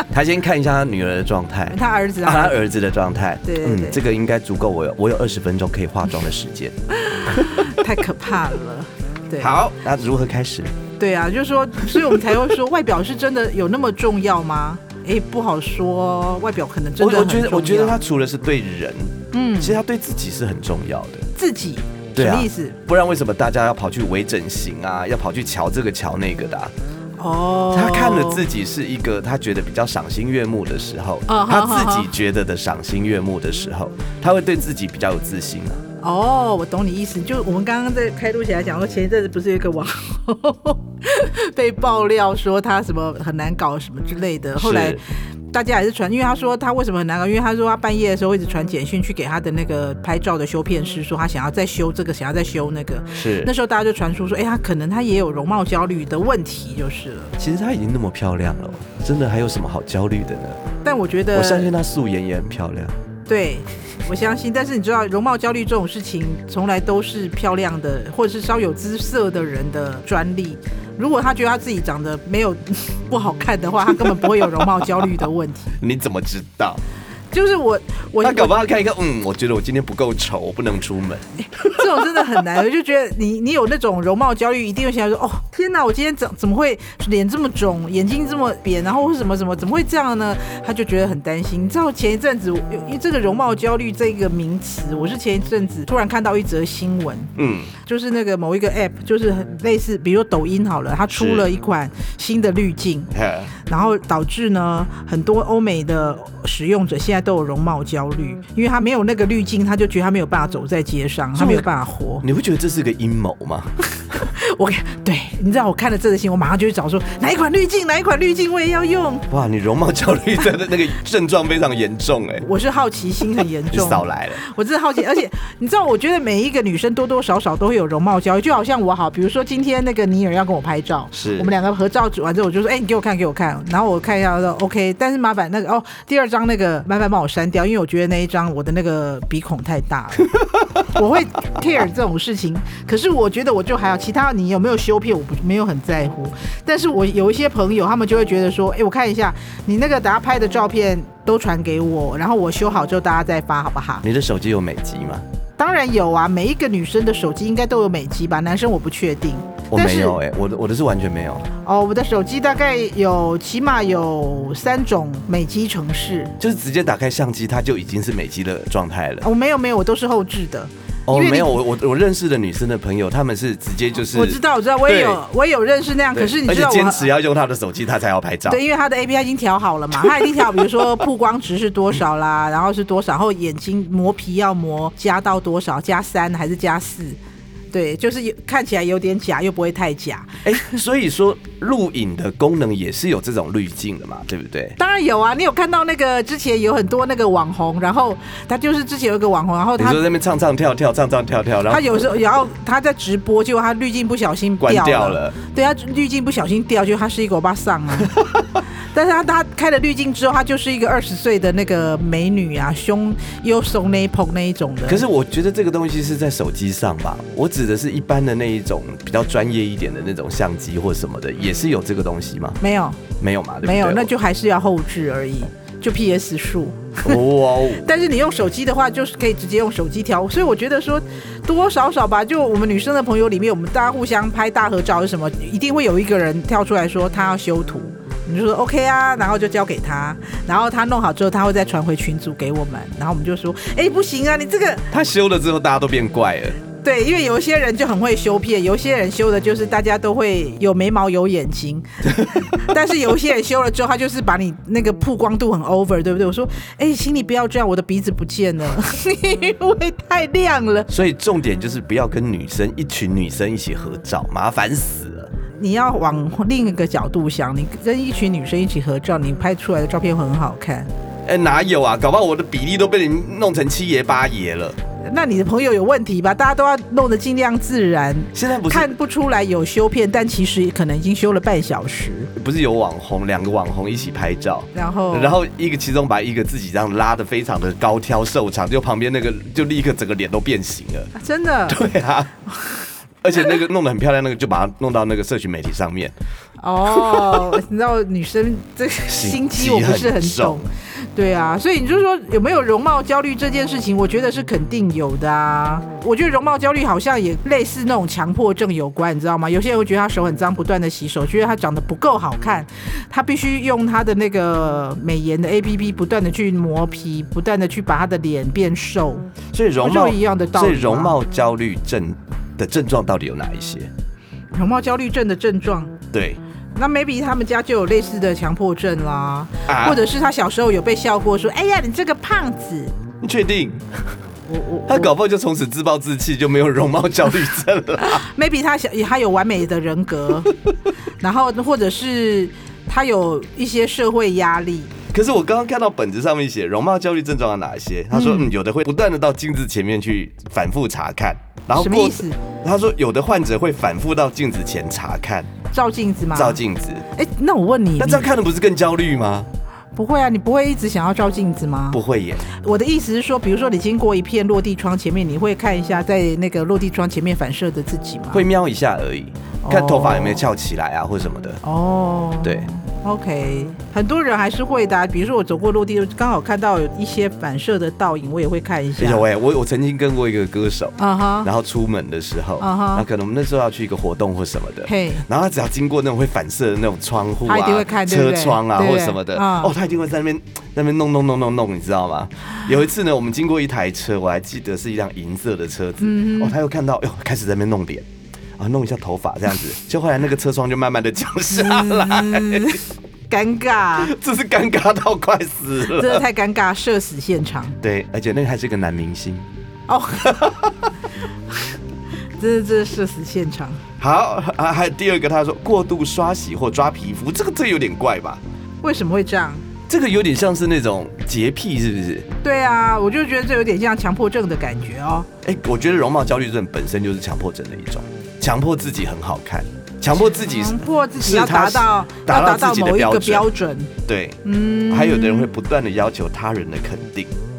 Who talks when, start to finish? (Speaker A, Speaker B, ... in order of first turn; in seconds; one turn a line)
Speaker A: 0.1-7.7
Speaker B: 1.7-2.6
Speaker B: 3.4-4.0
Speaker B: 7.0-9.5
Speaker A: 9.4-10.7
Speaker B: 11.0-18.0
Speaker A: 17.0-21.3
Speaker B: 19.3-19.8
Speaker B: 21.4-22.8
Speaker A: 22.1-26.7
Speaker B: 27.2-28.4
Speaker A: 27.7-35.8
Speaker B: 31.3-32.1
Speaker B: 36.0-57.4
Speaker A: 44.6-45.0
Speaker A: 53.1-53.5
Speaker A: 57.4-60.6
Speaker B: 60.8-61.7
Speaker A: 61.3-62.9
Speaker B: 63.3-75.8
Speaker A: 75.8-76.8
Speaker B: 77.3-78.5
Speaker A: 78.2-82.4
Speaker B: 81.4-103.1
Speaker A: 97.3-97.7
Speaker A: 101.2-101.5
Speaker A: 103.1-103.5
Speaker B: 103.7-112.2
Speaker A: 111.3-111.7
Speaker A: 112.2-113.7
Speaker B: 114.1-119.3
Speaker A: 119.3-122.4
Speaker B: 122.4-140.3
Speaker A: 123.7-124.4
Speaker A: 131.1-131.5
Speaker A: 140.3-140.7
Speaker B: 140.8-154.0
Speaker A: 154.0-155.2
Speaker B: 155.6-160.2
Speaker A: 159.7-161.5
Speaker B: 161.6-166.3
Speaker A: 166.4-169.2
Speaker B: 169.2-171.6
Speaker A: 171.1-175.2
Speaker B: 174.1-177.1
Speaker A: 176.1-178.6
Speaker B: 178.5-187.2
Speaker A: 179.9-180.9
Speaker B: 187.7-190.8
Speaker A: 190.4-194.8
Speaker B: 194.8-200.0
Speaker A: 199.8-201.9
Speaker B: 201.7-208.2
Speaker A: 204.6-205.3
Speaker B: 208.9-215.0
Speaker A: 214.9-222.6
Speaker B: 222.6-223.0
Speaker A: 223.2-224.1
Speaker B: 223.6-244.9
Speaker A: 227.0-227.9
Speaker A: 244.9-246.6
Speaker B: 246.8-260.9
Speaker A: 260.9-265.3
Speaker B: 265.6-270.9
Speaker A: 271.2-274.8
Speaker B: 275.0-282.3
Speaker A: 278.3-278.9
Speaker A: 282.4-291.1
Speaker B: 284.7-285.4
Speaker B: 291.1-291.8
Speaker A: 291.7-292.3
Speaker B: 292.5-292.8
Speaker A: 293.2-296.1
Speaker B: 296.6-321.2
Speaker A: 296.9-297.6
Speaker A: 299.1-300.6
Speaker A: 319.5-323.9
Speaker B: 324.5-326.0
Speaker A: 326.1-326.4
Speaker B: 326.8-332.9
Speaker A: 329.7-330.0
Speaker A: 333.2-333.9
Speaker B: 334.5-335.1
Speaker A: 334.9-338.2
Speaker B: 338.0-340.5
Speaker B: 341.2-344.9
Speaker A: 345.1-355.5
Speaker B: 348.1-348.5
Speaker B: 351.7-352.4
Speaker B: 355.7-356.6
Speaker A: 356.3-357.1
Speaker B: 357.1-358.3
Speaker A: 358.0-359.5
Speaker B: 359.9-368.4
Speaker A: 361.9-362.4
Speaker A: 368.3-371.6
Speaker B: 369.6-370.5
Speaker B: 371.6-379.2
Speaker A: 372.4-372.7
Speaker A: 379.0-402.8
Speaker B: 381.0-381.5
Speaker B: 382.6-383.1
Speaker B: 384.9-385.2
Speaker B: 387.4-389.7
Speaker B: 396.0-396.5
Speaker B: 401.5-404.1
Speaker A: 403.9-406.2
Speaker B: 405.9-407.8
Speaker A: 407.8-409.5
Speaker B: 409.9-410.5
Speaker A: 410.2-410.9
Speaker B: 412.4-413.8
Speaker A: 414.0-418.4
Speaker B: 418.8-419.6
Speaker A: 419.9-422.3
Speaker B: 422.4-425.3
Speaker A: 425.4-433.5
Speaker B: 430.1-433.9
Speaker A: 434.1-437.3
Speaker B: 434.4-435.5